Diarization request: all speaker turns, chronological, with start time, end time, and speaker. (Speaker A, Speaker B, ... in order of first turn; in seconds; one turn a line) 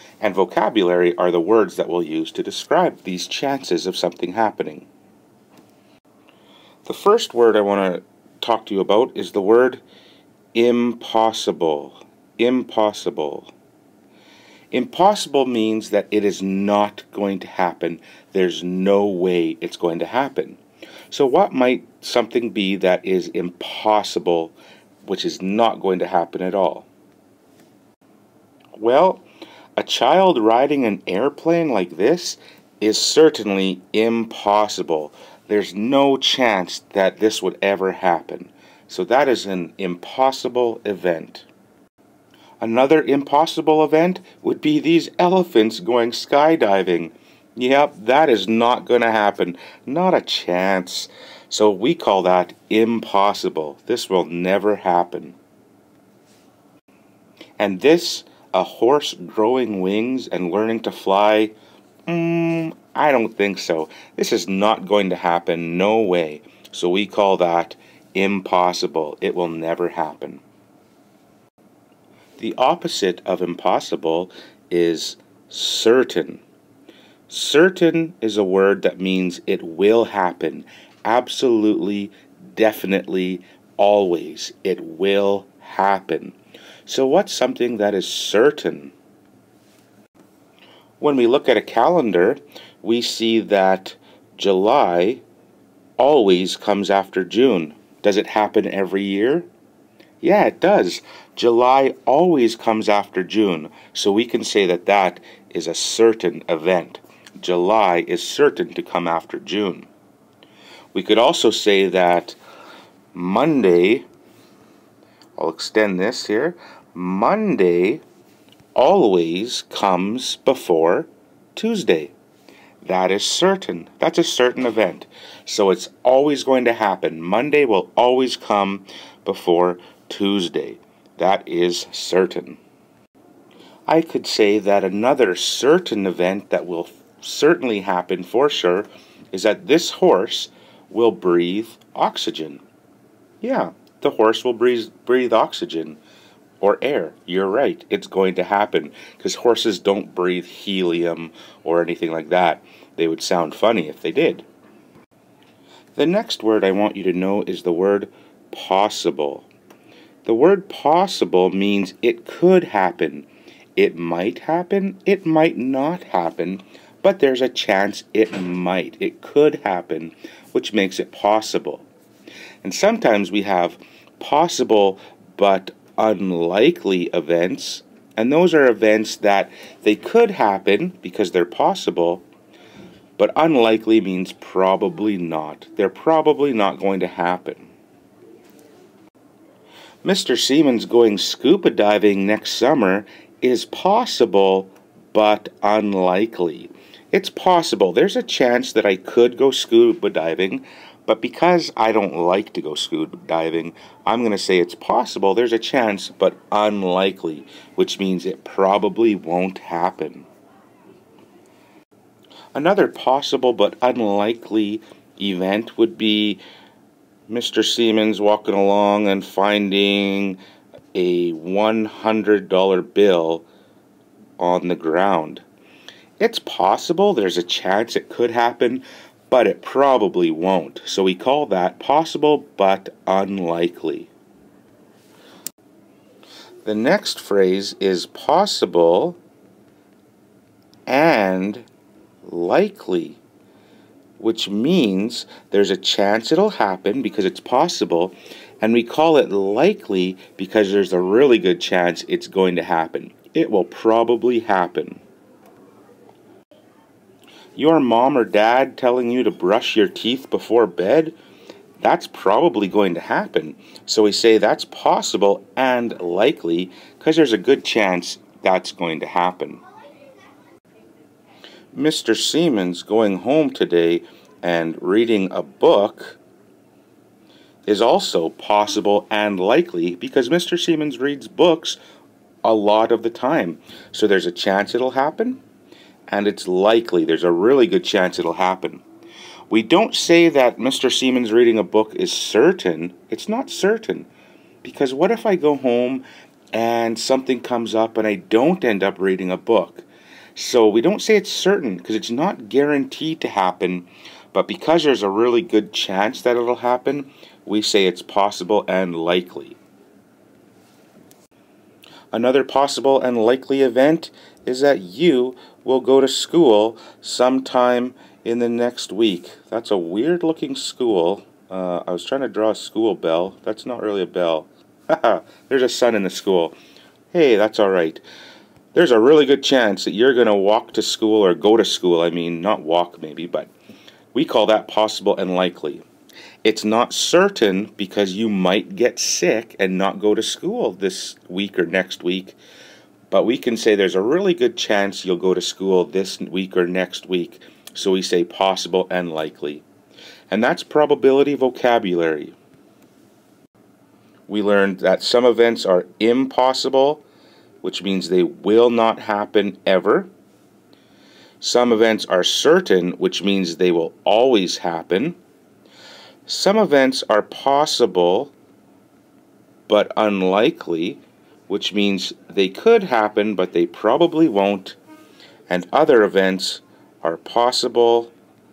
Speaker A: 0.2-4.9
Speaker A: 6.8-9.8
Speaker A: 10.5-13.5
Speaker A: 14.7-26.9
Speaker A: 28.8-29.2
Speaker A: 29.8-41.5
Speaker A: 42.6-55.4
Speaker A: 57.6-61.5
Speaker A: 62.1-70.4
Speaker A: 72.4-76.4
Speaker A: 77.3-88.9
Speaker A: 91.0-95.2
Speaker A: 96.0-99.5
Speaker A: 100.2-109.9
Speaker A: 110.9-112.4
Speaker A: 113.1-114.0
Speaker A: 115.4-118.0
Speaker A: 118.7-122.1
Speaker A: 122.8-132.6
Speaker A: 133.9-142.6
Speaker A: 143.4-146.0
Speaker A: 146.6-154.4
Speaker A: 155.9-159.5
Speaker A: 160.2-171.9
Speaker A: 172.6-182.2
Speaker A: 183.2-187.7
Speaker A: 190.0-210.3
Speaker A: 212.5-216.4
Speaker A: 217.3-220.4
Speaker A: 220.9-223.4
Speaker A: 224.4-225.4
Speaker A: 226.2-234.1
Speaker A: 236.6-239.2
Speaker A: 240.9-241.7
Speaker A: 242.2-243.2
Speaker A: 244.2-255.0
Speaker A: 257.6-261.1
Speaker A: 261.8-269.6
Speaker A: 271.7-276.2
Speaker A: 277.6-281.8
Speaker A: 282.4-285.4
Speaker A: 286.1-288.8
Speaker A: 289.5-294.1
Speaker A: 294.6-309.6
Speaker A: 312.1-326.5
Speaker A: 327.1-328.0
Speaker A: 328.7-333.5
Speaker A: 334.1-335.8
Speaker A: 336.4-342.4
Speaker A: 343.1-349.6
Speaker A: 350.3-352.3
Speaker A: 354.3-357.0
Speaker A: 357.6-360.1
Speaker A: 361.4-365.2
Speaker A: 366.2-368.3
Speaker A: 369.7-374.8
Speaker A: 375.5-378.1